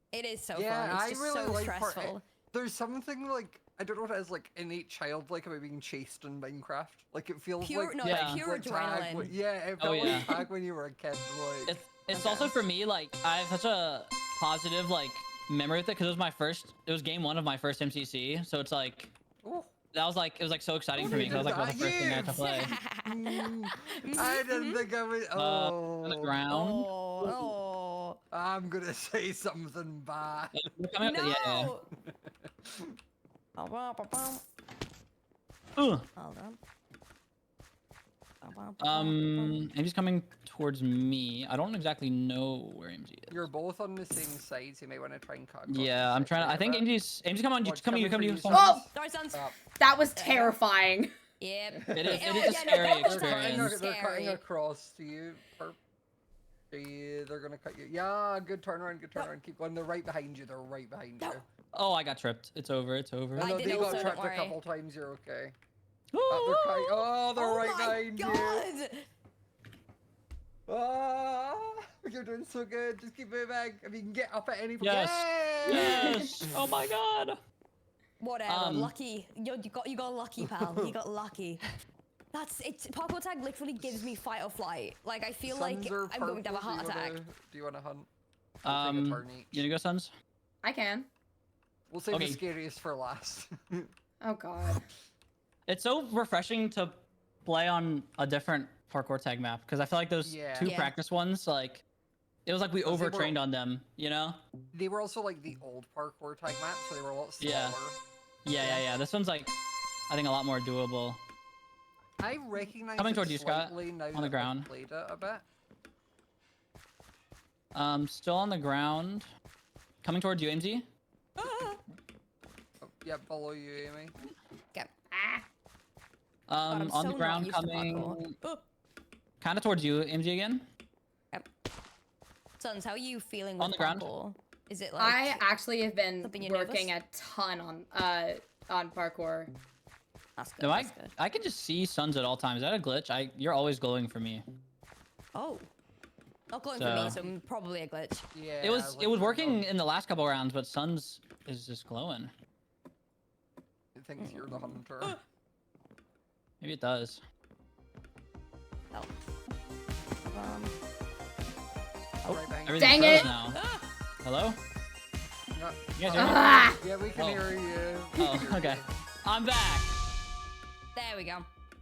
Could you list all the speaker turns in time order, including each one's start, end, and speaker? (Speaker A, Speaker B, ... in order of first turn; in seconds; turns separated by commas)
Speaker A: 0.1-2.2, Speaker B: 0.5-11.8, Speaker A: 7.6-9.3, Speaker C: 8.0-8.4, Speaker C: 9.8-10.3, Speaker A: 10.0-10.4, Speaker C: 11.7-19.1, Speaker A: 12.1-12.5, Speaker B: 19.4-19.7, Speaker C: 19.9-22.8, Speaker B: 21.0-26.4, Speaker A: 21.1-21.4, Speaker A: 22.3-24.8, Speaker C: 25.4-27.4, Speaker A: 26.5-28.2, Speaker B: 28.3-30.6, Speaker C: 30.5-31.7, Speaker A: 31.0-31.9, Speaker B: 32.6-33.0, Speaker A: 33.6-34.4, Speaker C: 35.8-36.1, Speaker A: 36.1-36.6, Speaker A: 38.4-39.7, Speaker C: 38.8-43.5, Speaker B: 43.3-46.9, Speaker C: 45.7-48.6, Speaker B: 47.6-49.5, Speaker D: 48.5-48.9, Speaker A: 48.9-49.5, Speaker D: 49.8-51.1, Speaker A: 50.1-50.5, Speaker A: 51.4-54.4, Speaker B: 51.7-55.8, Speaker C: 51.9-53.8, Speaker B: 56.7-61.5, Speaker C: 61.7-64.2, Speaker A: 63.3-64.6, Speaker B: 63.4-65.5, Speaker C: 66.1-67.1, Speaker B: 66.3-68.7, Speaker A: 67.3-69.0, Speaker B: 70.7-76.4, Speaker C: 74.8-77.4, Speaker D: 75.7-76.1, Speaker A: 78.2-81.6, Speaker C: 78.5-78.9, Speaker B: 80.4-80.9, Speaker A: 82.3-87.2, Speaker B: 83.8-84.2, Speaker B: 85.5-88.1, Speaker C: 88.6-90.1, Speaker B: 88.7-89.6, Speaker D: 90.6-91.1, Speaker B: 91.9-93.9, Speaker C: 92.1-92.4, Speaker D: 94.2-94.8, Speaker C: 95.7-101.8, Speaker B: 100.2-100.7, Speaker A: 100.6-101.0, Speaker C: 102.5-104.4, Speaker B: 102.8-103.4, Speaker B: 104.7-108.0, Speaker C: 107.4-107.8, Speaker C: 108.4-109.5, Speaker B: 108.6-108.9, Speaker C: 110.1-111.2, Speaker B: 112.2-115.4, Speaker C: 113.0-114.7, Speaker C: 117.7-119.3, Speaker C: 120.0-120.8, Speaker A: 121.4-121.8, Speaker B: 122.8-124.1, Speaker D: 125.1-125.5, Speaker C: 126.5-128.3, Speaker A: 126.7-128.6, Speaker C: 129.4-130.6, Speaker A: 132.6-135.4, Speaker C: 133.6-134.1, Speaker D: 135.0-139.5, Speaker A: 136.2-136.9, Speaker A: 140.3-141.1, Speaker C: 140.6-144.4, Speaker A: 145.3-145.7, Speaker A: 146.5-148.2, Speaker C: 146.7-147.2, Speaker B: 146.8-147.2, Speaker B: 148.3-149.7, Speaker C: 148.6-152.3, Speaker B: 153.9-155.2, Speaker A: 154.2-155.2, Speaker C: 156.6-157.2, Speaker A: 160.3-160.8, Speaker B: 162.2-163.3, Speaker C: 162.3-163.6, Speaker D: 162.8-163.3, Speaker A: 163.5-163.8, Speaker C: 164.2-164.6, Speaker B: 165.5-168.9, Speaker C: 166.0-166.5, Speaker D: 166.1-166.8, Speaker C: 167.2-167.5, Speaker C: 168.2-169.9, Speaker A: 170.9-171.5